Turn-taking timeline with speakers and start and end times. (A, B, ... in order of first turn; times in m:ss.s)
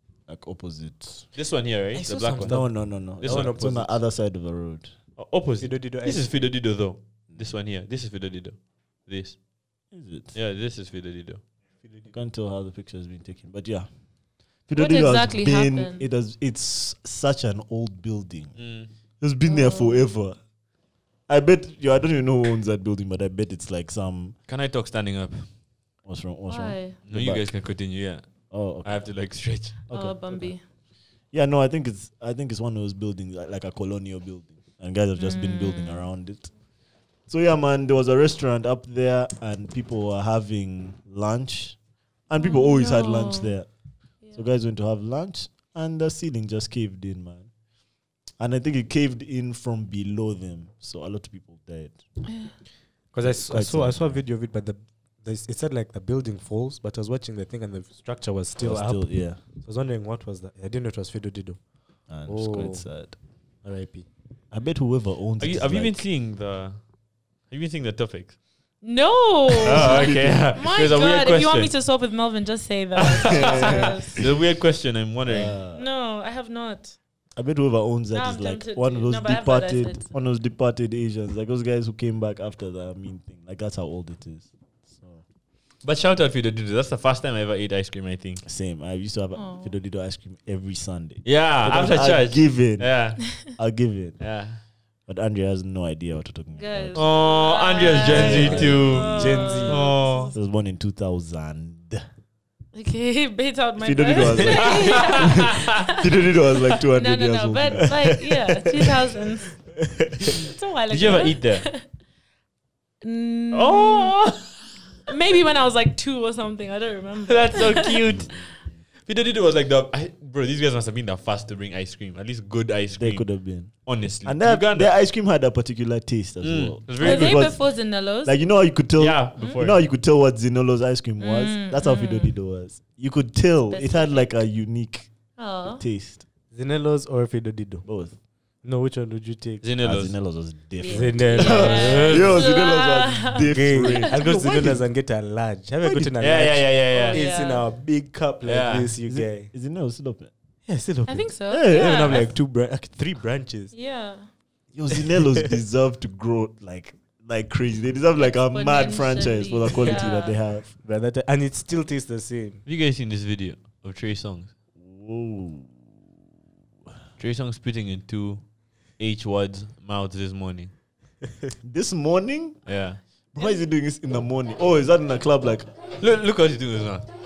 0:00.3-0:01.4 A
0:01.4-0:03.6 B
0:01.9-0:04.0 C
0:02.4-0:05.0 A
0:05.2-0:09.4 B
0:05.6-0:06.3 C
0:07.3-0:07.6 A
0:09.9-0:10.4 A
0:10.3-0:11.4 B
0:11.8-0:12.1 C
0:12.1-0:13.9 A
0:14.6-0:18.6 A
0:14.8-0:16.1 D
0:18.6-0:18.9 B
0:19.2-0:20.4 A
0:19.4-0:20.0 D
0:21.3-0:24.4 A
0:24.5-0:25.5 B
0:26.0-0:27.6 A
0:26.5-0:27.0 D
0:27.0-0:29.8 B
0:28.5-0:29.0 A
0:29.9-0:30.5 A
0:29.9-0:30.6 D
0:31.3-0:36.5 A
0:35.2-0:36.1 D
0:37.3-0:43.7 A
0:42.4-0:43.6 D
0:44.3-0:47.5 A
0:48.4-0:52.0 A
0:52.3-0:52.5 D
0:53.1-1:04.1 C
0:53.2-0:54.2 A
0:58.6-0:59.4 A
1:02.1-1:03.2 A
1:04.5-1:06.0 A
1:05.4-1:06.9 B
1:07.5-1:08.4 B
1:08.8-1:14.2 D
1:09.6-1:11.7 B
1:09.6-1:10.5 A
1:13.0-1:15.5 B
1:13.2-1:14.3 A
1:15.3-1:15.8 A
1:15.8-1:17.0 D
1:17.4-1:25.2 A
1:18.1-1:20.1 D
1:25.8-1:28.4 B
1:28.4-1:34.2 A
1:29.4-1:29.7 D
1:31.2-1:33.5 B
1:34.2-1:34.6 B
1:35.1-1:37.1 A
1:36.6-1:40.4 D
1:37.0-1:40.3 B
1:37.8-1:39.7 A
1:38.1-1:39.9 C
1:40.3-1:42.0 A
1:42.7-1:46.1 D
1:43.8-1:48.2 A
1:44.5-1:45.9 B
1:46.7-1:49.6 D
1:48.0-1:48.9 C
1:49.8-1:50.4 C
1:50.4-1:51.8 D
1:50.9-1:51.7 B
1:53.0-1:54.5 D
1:53.5-1:54.4 B
1:55.1-1:58.0 D
1:57.3-1:58.3 B
1:58.0-1:58.8 A
1:59.1-2:04.9 B
2:03.0-2:16.2 A
2:06.4-2:07.5 B
2:07.0-2:08.4 D
2:09.0-2:09.8 B
2:11.2-2:12.3 D
2:13.7-2:14.3 D
2:15.4-2:15.8 D
2:16.5-2:17.9 C
2:17.8-2:18.2 A
2:18.6-2:19.6 C
2:19.6-2:20.1 B
2:19.8-2:24.8 A
2:20.8-2:24.7 D
2:20.9-2:22.3 C
2:21.4-2:22.4 B
2:23.5-2:29.5 C
2:25.8-2:26.1 A
2:26.2-2:27.3 B
2:26.9-2:27.6 D
2:28.4-2:28.9 B
2:29.0-2:30.3 A
2:30.6-2:33.7 C
2:31.1-2:32.3 D
2:31.5-2:32.3 A
2:33.7-2:34.3 D
2:34.7-2:40.7 A
2:35.0-2:35.4 C
2:38.2-2:40.4 D
2:40.8-2:42.6 C
2:42.6-2:44.5 B
2:44.8-2:45.8 A
2:47.2-2:50.7 B
2:51.6-2:52.8 A
2:52.6-2:53.0 B
2:53.3-2:55.7 A
2:56.0-2:57.1 B